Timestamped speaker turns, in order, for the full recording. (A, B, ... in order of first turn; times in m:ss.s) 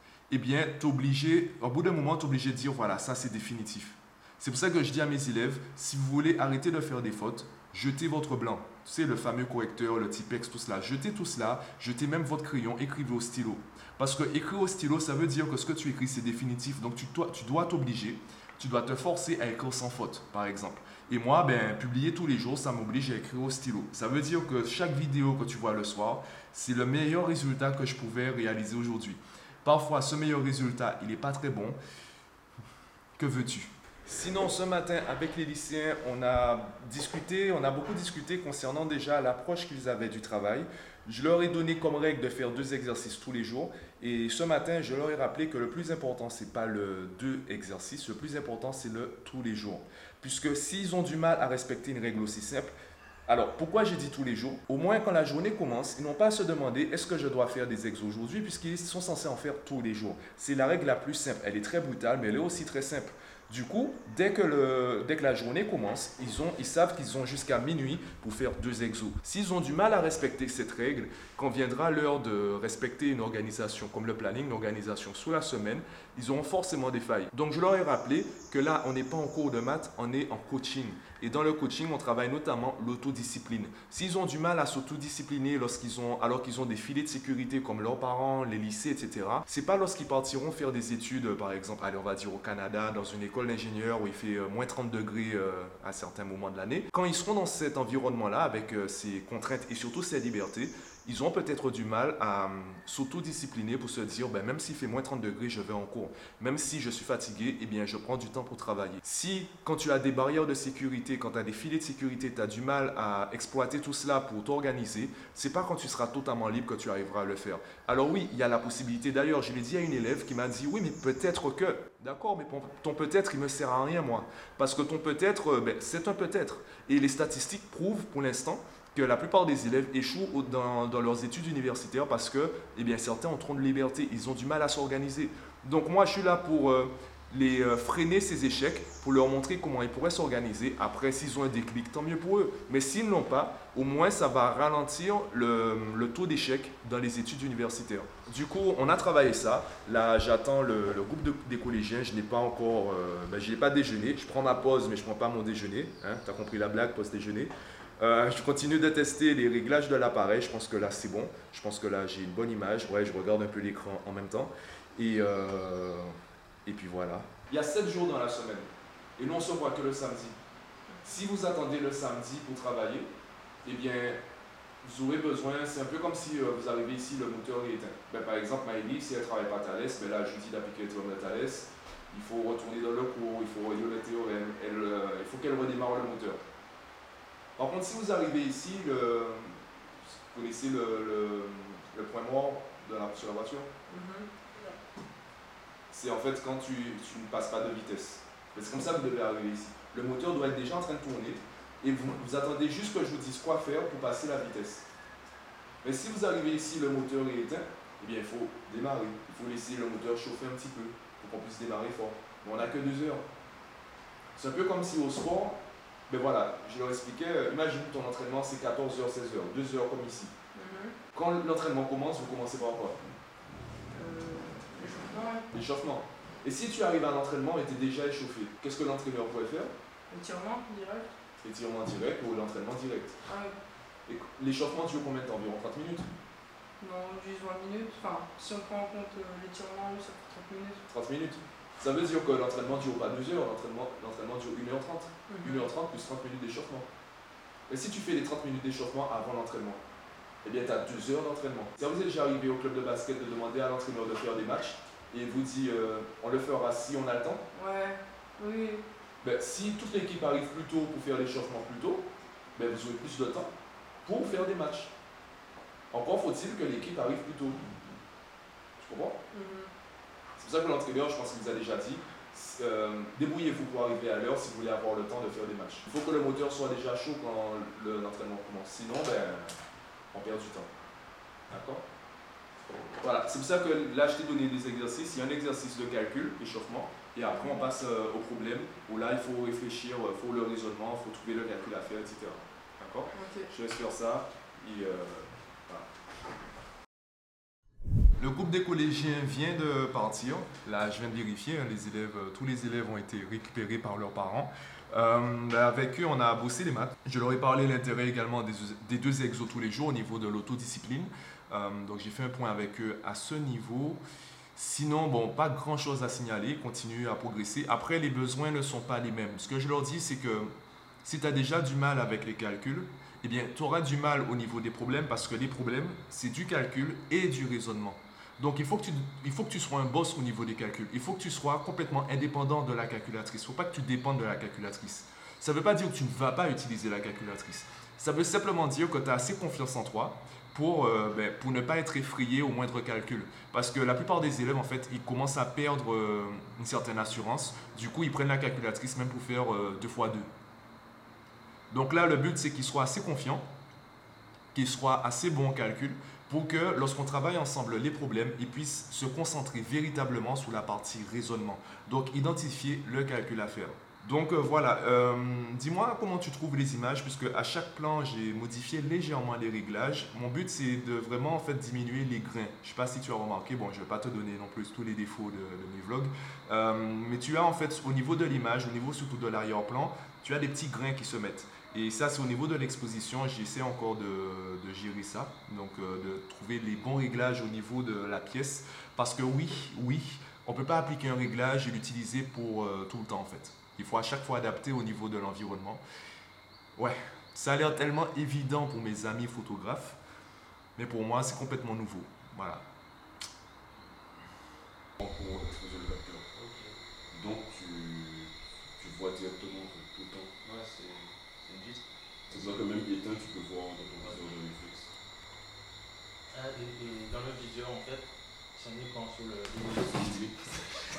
0:00.3-0:31.8 A
0:33.2-0:52.7 A
0:53.3-2:46.1 A
2:46.7-2:48.7 A
2:49.2-2:50.4 A
2:51.0-2:53.1 A
2:53.6-2:54.2 A
2:54.8-3:06.4 A
3:07.6-3:09.6 A
3:10.3-3:13.7 A
3:13.9-3:14.8 B
3:15.9-3:24.9 A
3:25.8-3:33.2 A
3:34.4-3:40.3 A
3:40.5-3:41.0 B
3:41.1-3:43.0 A
3:43.9-3:45.4 B
3:45.5-3:49.7 A
3:50.1-3:51.1 B
3:51.4-3:53.1 A
3:53.3-3:53.6 B
3:54.1-3:56.1 A
3:56.8-4:00.8 B
4:00.9-4:06.9 A
4:05.3-4:05.7 B
4:07.7-4:09.8 A
4:10.4-4:17.4 A
4:17.5-4:18.8 B
4:19.2-4:23.5 A
4:24.0-4:24.9 A
4:25.9-4:27.6 A
4:28.8-4:29.2 A
4:29.3-4:29.7 B
4:30.4-4:39.5 A
4:40.1-4:40.7 A
4:41.5-4:41.8 A
4:43.0-4:55.9 A
4:47.3-4:47.6 B
4:53.1-4:53.5 B
4:58.2-5:14.0 A
5:14.6-5:20.5 A
5:21.0-5:50.3 A
5:51.7-5:53.4 A
5:54.5-6:35.8 A
6:36.8-6:40.0 A
6:40.8-6:42.7 A
6:45.0-6:46.2 C
6:46.3-6:46.8 D
6:47.1-6:50.3 C
6:50.4-6:52.5 D
6:52.3-6:54.9 C
6:54.0-6:54.3 D
6:56.3-7:00.1 D
6:59.7-7:00.5 C